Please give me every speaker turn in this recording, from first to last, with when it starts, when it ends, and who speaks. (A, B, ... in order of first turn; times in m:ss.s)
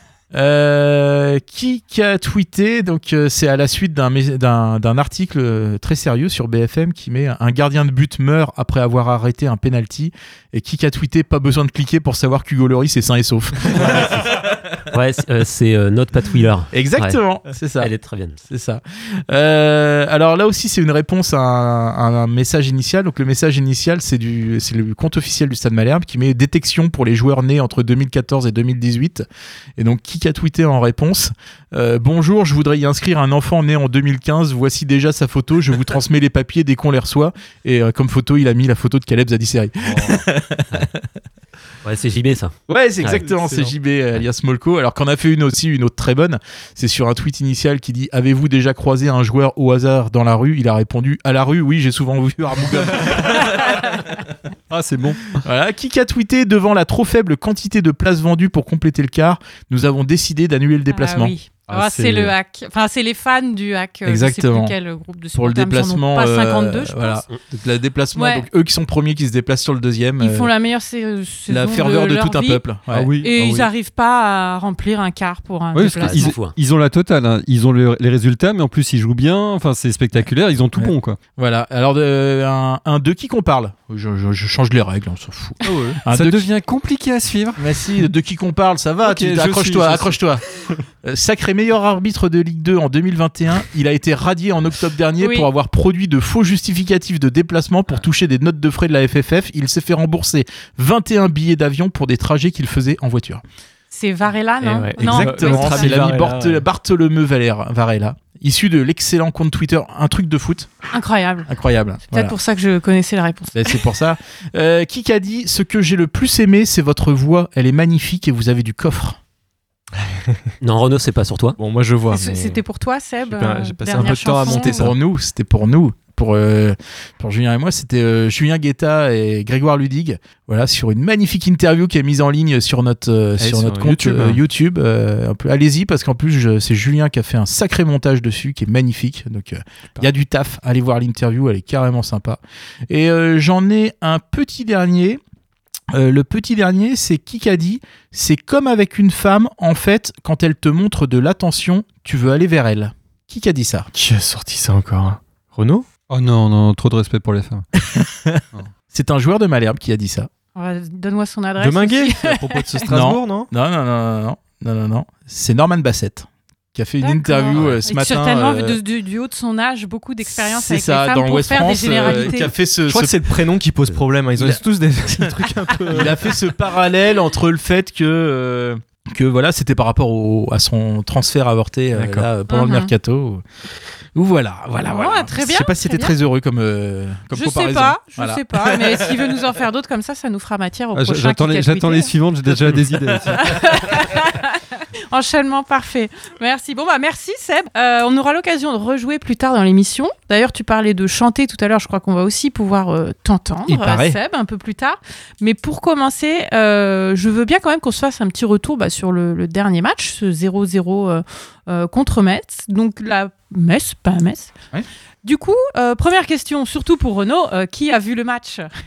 0:00.3-0:14.4 A
0:13.9-0:14.2 B
0:14.9-0:17.2 B
0:16.7-0:17.9 A
0:17.8-0:18.4 B
0:18.4-0:29.2 A
0:29.8-0:41.0 A
0:41.8-0:43.3 B
0:42.7-0:53.8 A
0:54.7-0:55.4 C
0:55.3-1:01.4 A
1:00.9-1:07.2 D
1:01.7-1:02.3 C
1:04.0-1:04.7 A
1:05.3-1:10.5 A
1:08.1-1:08.5 D
1:10.2-1:12.6 D
1:11.5-1:13.1 A
1:12.9-1:13.7 C
1:13.2-1:16.4 D
1:15.7-1:21.2 C
1:15.9-1:16.6 B
1:20.8-1:26.4 A
1:25.6-1:27.6 C
1:27.6-1:30.4 A
1:29.0-1:30.2 C
1:31.0-1:43.4 A
1:35.2-1:35.5 D
1:43.9-1:46.0 D
1:44.6-1:46.6 E
1:45.0-1:50.7 A
1:50.9-1:51.5 D
1:51.5-1:52.4 A
1:52.1-1:53.8 D
1:53.5-1:59.2 A
2:00.6-2:01.6 B
2:01.6-2:02.6 E
2:02.1-2:04.8 D
2:03.2-2:05.0 E
2:04.0-2:25.2 A
2:13.4-2:14.4 E
2:25.9-2:33.9 A
2:33.9-2:35.9 E
2:36.1-2:37.6 C
2:37.8-2:40.3 A
2:40.5-2:42.8 D
2:41.6-2:43.5 E
2:42.9-2:48.8 A
2:47.0-2:52.5 D
2:50.2-2:53.2 A
2:52.9-2:56.4 E
2:54.4-3:03.4 A
3:01.9-3:02.3 E
3:02.5-3:02.9 D
3:04.1-3:09.2 A
3:04.8-3:06.1 D
3:07.3-3:12.1 D
3:10.9-3:13.6 C
3:13.3-3:34.5 D
3:23.6-3:24.2 A
3:35.2-3:38.7 D